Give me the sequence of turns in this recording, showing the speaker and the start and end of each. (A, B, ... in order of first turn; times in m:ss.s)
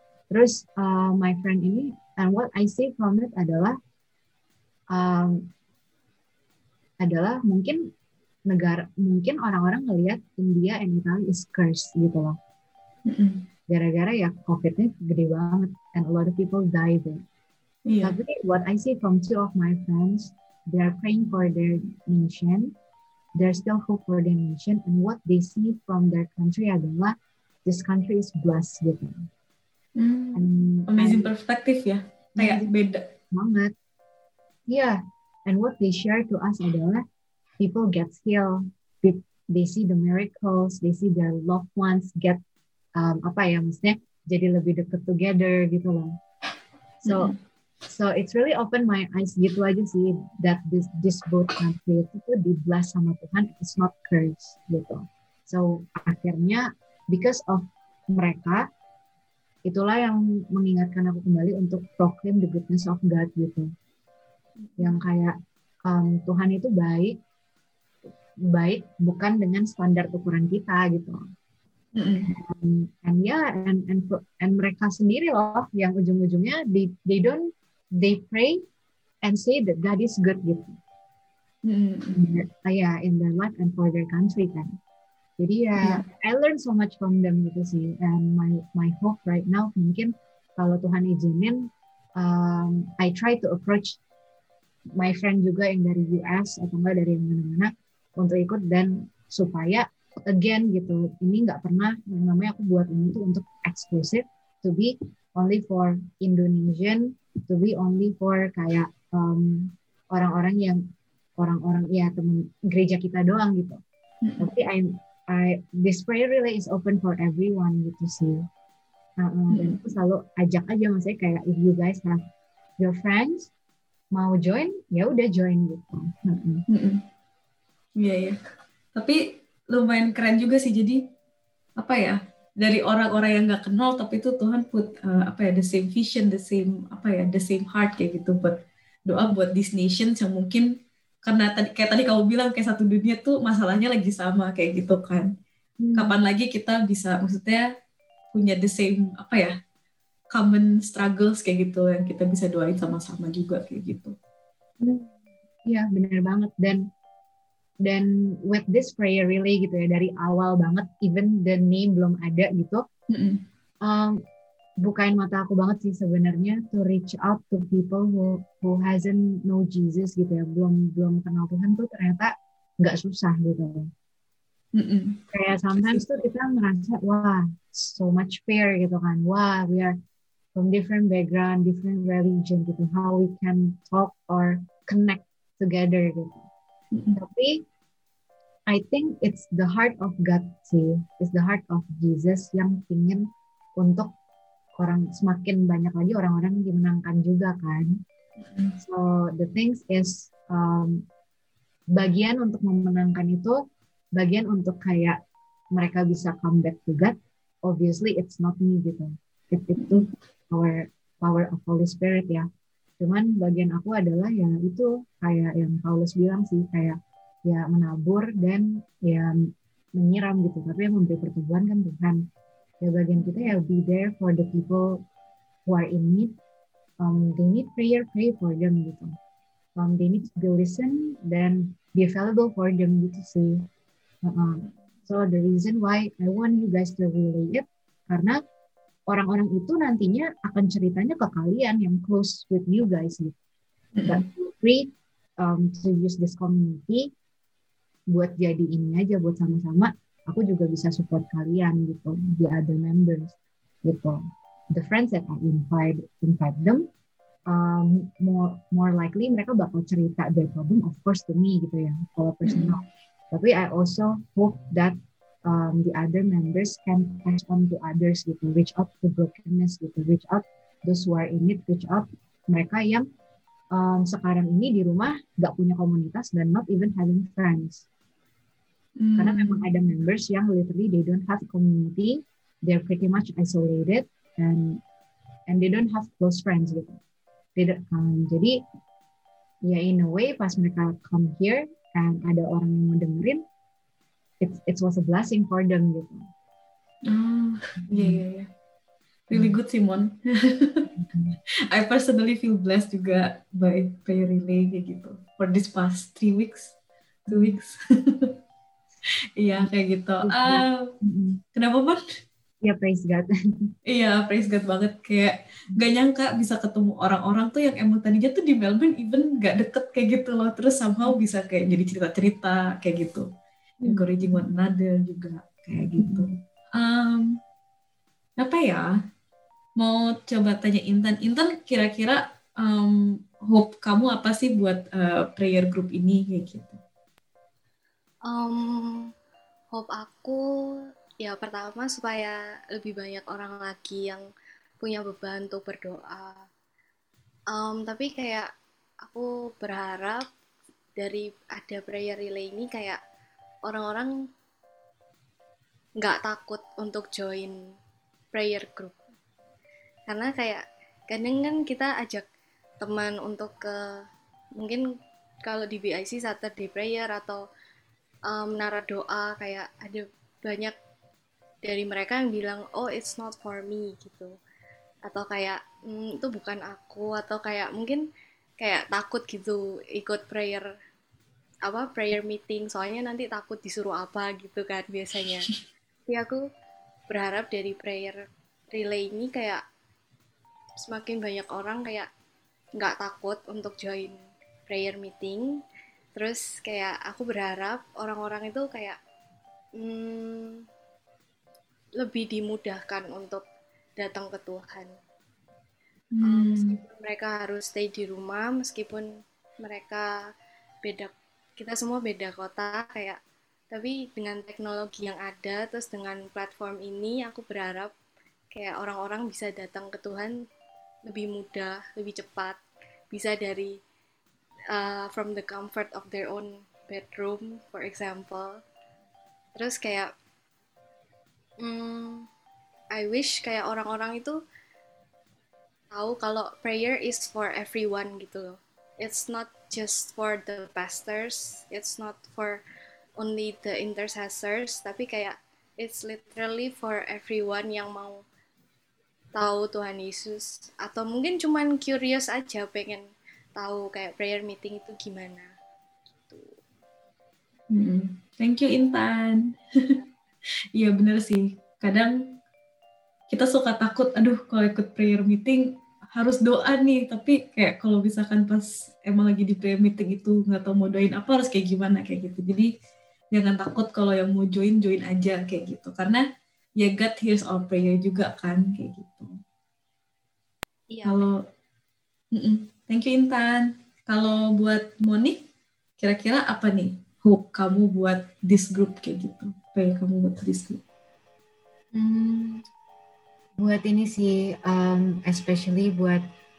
0:00.3-0:03.8 A
0:04.9-0:05.5 A
0:07.0-0:07.8 A
0:08.5-0:12.4 A
0:13.1-0:13.4 B
0:13.7-0:17.2 A
0:17.9-0:18.2 B
0:18.0-0:22.8 A
0:23.4-0:29.2 A
0:30.0-0:33.0 B
0:30.4-0:31.3 A
0:32.4-0:32.7 A
0:33.3-0:33.7 A
0:34.7-0:37.0 A
0:37.6-0:42.4 A
0:43.0-0:46.2 A
0:47.0-0:47.3 A
0:47.1-0:47.4 B
0:47.9-0:58.6 A
0:59.7-1:03.7 A
1:04.6-1:05.0 B
1:04.8-1:05.4 A
1:05.9-1:07.2 A
1:08.5-1:11.2 A
1:12.0-1:12.3 B
1:12.3-1:18.6 A
1:19.2-1:20.8 A
1:21.6-1:22.3 B
1:22.1-1:24.8 A
1:25.4-1:34.0 A
1:35.0-1:50.8 A
1:51.4-1:53.8 A
1:54.2-1:54.5 B
1:54.4-1:58.4 A
1:59.2-2:02.2 A
1:59.5-1:59.8 B
2:02.8-2:03.5 A
2:04.1-2:06.6 A
2:06.7-2:07.0 B
2:08.0-2:08.4 B
2:09.7-2:11.0 B
2:11.8-2:18.6 B
2:19.1-2:20.7 B
2:21.2-2:25.3 B
2:25.8-2:26.2 A
2:26.0-2:27.6 B
2:28.3-2:29.5 B
2:30.3-2:34.1 B
2:34.8-2:35.1 A
2:35.7-2:36.8 A
2:37.8-2:42.8 A
2:43.1-2:43.4 B
2:43.8-2:44.2 A
2:44.8-2:53.9 A
2:54.8-2:55.2 B
2:55.3-3:00.0 A
2:55.7-2:56.2 B
3:00.6-3:06.5 A
3:06.9-3:07.2 B
3:07.2-3:07.6 A
3:08.7-3:14.1 A
3:14.8-3:17.9 A
3:18.4-3:18.8 B
3:18.8-3:21.0 A
3:22.0-3:23.6 A
3:24.2-3:25.2 A
3:25.7-3:32.5 A
3:33.0-3:42.3 A
3:42.8-3:45.0 A
3:45.7-3:46.4 A
3:47.0-3:49.1 A
3:49.8-3:53.7 A
3:54.2-3:58.4 A
3:59.1-4:03.4 A
4:04.0-4:04.2 B
4:04.1-4:04.9 A
4:05.4-4:07.1 A
4:08.1-4:14.2 A
4:14.7-4:16.9 A
4:17.5-4:33.0 A
4:22.4-4:22.8 B
4:33.7-4:37.9 A
4:39.0-4:39.6 B
4:39.2-4:44.8 A
4:45.5-4:47.0 A
4:47.6-4:48.6 A
4:49.7-4:53.4 A
4:54.4-4:56.3 A
4:57.1-4:58.5 B
4:57.9-4:58.2 A
4:59.3-5:00.9 B
5:00.9-5:01.4 A
5:01.7-5:06.7 B
5:07.3-5:08.3 B
5:07.3-5:07.6 A
5:09.4-5:10.9 B
5:10.2-5:11.4 A
5:11.5-5:12.0 B
5:12.6-5:13.7 A
5:13.9-5:23.3 B
5:23.8-5:27.4 B
5:23.8-5:24.4 A
5:26.0-5:26.3 A
5:28.4-5:28.8 B
5:29.8-5:36.8 B
5:38.3-5:39.1 C
5:39.7-5:40.4 C
5:41.2-5:44.2 C
5:44.8-5:46.4 C
5:47.5-5:48.5 C
5:49.1-5:50.2 C
5:51.0-5:53.0 C
5:53.7-5:54.1 C
5:56.0-5:57.6 C
5:58.3-5:59.0 C
6:00.1-6:02.2 C
6:02.8-6:03.8 C
6:05.4-6:07.4 C
6:08.3-6:10.7 C
6:11.6-6:14.3 C
6:15.1-6:18.0 C
6:18.6-6:20.6 C
6:21.7-6:25.5 C
6:26.1-6:26.4 C
6:27.1-6:28.2 C
6:28.7-6:29.6 C
6:30.8-6:32.1 C
6:32.8-6:34.2 C
6:34.7-6:35.5 C
6:36.2-6:39.0 C
6:39.8-6:40.6 C
6:42.0-6:43.4 C
6:44.0-6:44.9 C
6:46.1-6:46.8 B
6:46.2-6:49.1 C
6:49.6-6:50.1 C
6:50.8-6:53.2 C
6:53.7-6:57.9 C
6:58.5-7:00.4 C
7:01.1-7:02.6 C
7:03.1-7:03.7 C
7:04.7-7:08.6 C
7:09.6-7:10.1 C
7:11.6-7:12.3 C
7:12.9-7:14.4 C
7:15.9-7:22.6 C
7:23.2-7:28.2 C
7:29.4-7:33.0 C
7:33.6-7:35.5 C
7:37.7-7:40.0 B
7:40.8-7:42.1 B
7:43.3-7:45.6 B
7:46.2-7:52.7 B
7:53.3-7:56.2 B
7:56.8-7:59.3 B
8:00.9-8:01.3 C
8:01.0-8:01.3 B
8:02.3-8:05.4 B
8:06.0-8:10.8 B
8:11.9-8:12.6 A
8:13.6-8:16.2 A